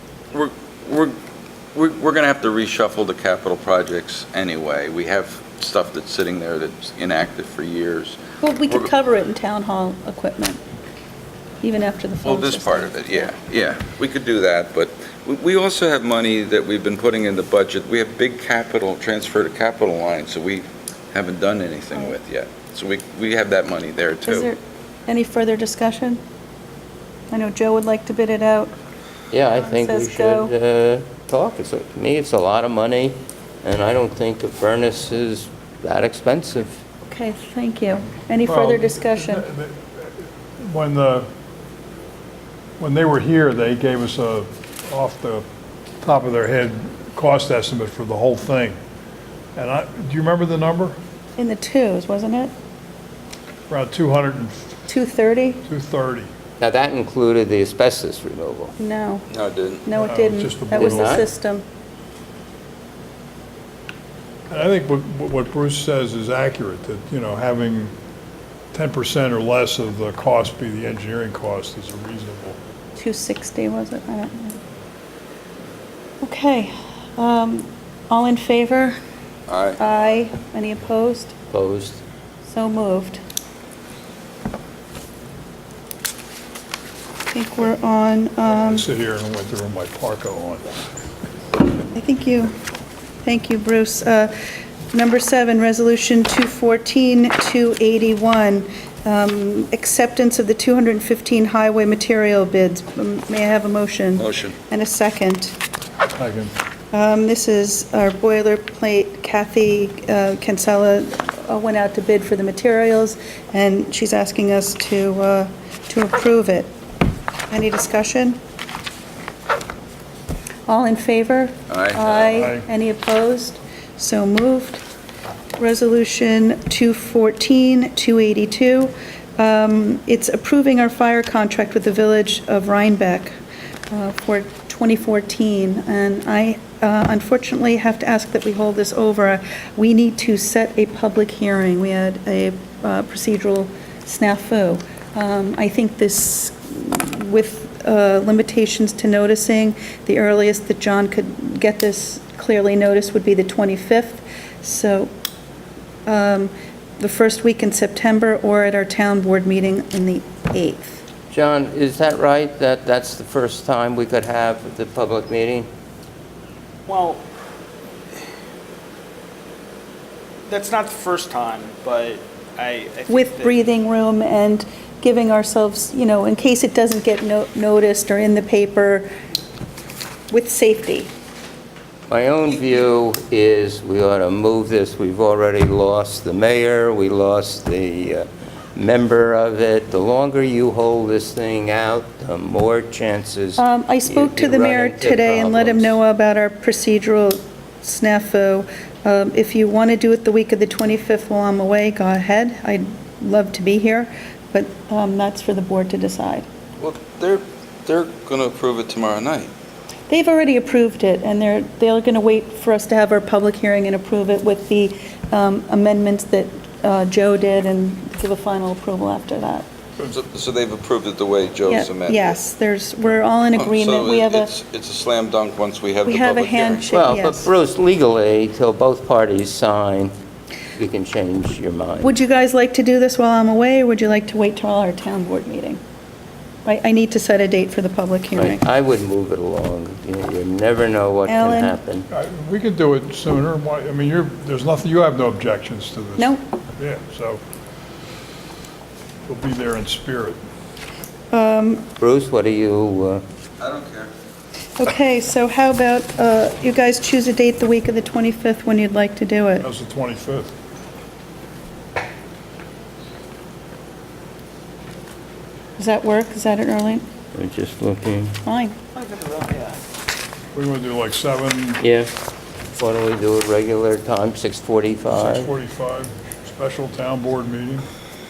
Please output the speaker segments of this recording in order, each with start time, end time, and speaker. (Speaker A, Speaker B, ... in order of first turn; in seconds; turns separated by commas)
Speaker A: 0.3-1.2, Speaker A: 1.7-8.9, Speaker B: 8.4-10.6, Speaker B: 11.6-13.3, Speaker A: 12.2-24.5, Speaker B: 24.2-26.2, Speaker B: 27.3-28.7, Speaker C: 29.3-36.8, Speaker B: 29.6-30.5, Speaker B: 37.1-39.5, Speaker D: 38.5-41.3, Speaker D: 42.8-45.5, Speaker D: 46.0-48.8, Speaker D: 49.6-51.0, Speaker B: 51.4-52.5, Speaker D: 53.7-54.8, Speaker B: 54.9-55.6, Speaker D: 55.7-56.3, Speaker C: 56.6-58.7, Speaker B: 58.8-59.3, Speaker A: 59.3-59.9, Speaker B: 59.9-61.6, Speaker D: 60.0-61.3, Speaker C: 60.8-61.2, Speaker D: 64.5-67.9, Speaker D: 68.7-72.6, Speaker B: 73.0-74.6, Speaker B: 76.2-79.0, Speaker A: 79.5-79.8, Speaker B: 79.8-81.3, Speaker C: 81.5-82.0, Speaker B: 82.5-83.2, Speaker B: 87.3-88.8, Speaker D: 88.7-90.8, Speaker B: 91.9-92.5, Speaker B: 93.2-94.4, Speaker B: 94.9-105.6, Speaker A: 104.2-104.6, Speaker D: 106.2-106.5, Speaker B: 106.9-116.7, Speaker B: 117.5-118.4, Speaker B: 120.7-124.8, Speaker A: 121.7-122.4, Speaker D: 122.3-122.7, Speaker B: 125.6-133.3, Speaker B: 133.9-155.1, Speaker B: 156.1-161.0, Speaker C: 161.3-165.7, Speaker E: 166.9-167.2, Speaker E: 170.5-173.6, Speaker B: 173.1-179.1, Speaker B: 180.3-181.1, Speaker C: 182.1-196.0, Speaker B: 193.6-206.5, Speaker A: 206.8-209.5, Speaker B: 210.1-219.7, Speaker A: 220.1-222.4, Speaker B: 221.7-224.5, Speaker A: 223.5-226.9, Speaker B: 226.0-227.5, Speaker C: 226.9-230.1, Speaker C: 230.8-232.1, Speaker B: 232.0-235.8, Speaker B: 236.7-238.6, Speaker C: 238.4-242.1, Speaker B: 241.3-241.8, Speaker D: 242.1-247.4, Speaker D: 249.3-250.4, Speaker B: 251.3-251.9, Speaker C: 252.0-253.2, Speaker A: 253.6-254.1, Speaker B: 254.8-259.7, Speaker D: 259.6-260.5, Speaker B: 265.8-267.0, Speaker C: 267.4-268.4, Speaker B: 268.5-268.8, Speaker E: 269.0-269.8, Speaker D: 270.5-271.8, Speaker C: 271.8-272.1, Speaker C: 272.7-275.5, Speaker D: 275.1-277.9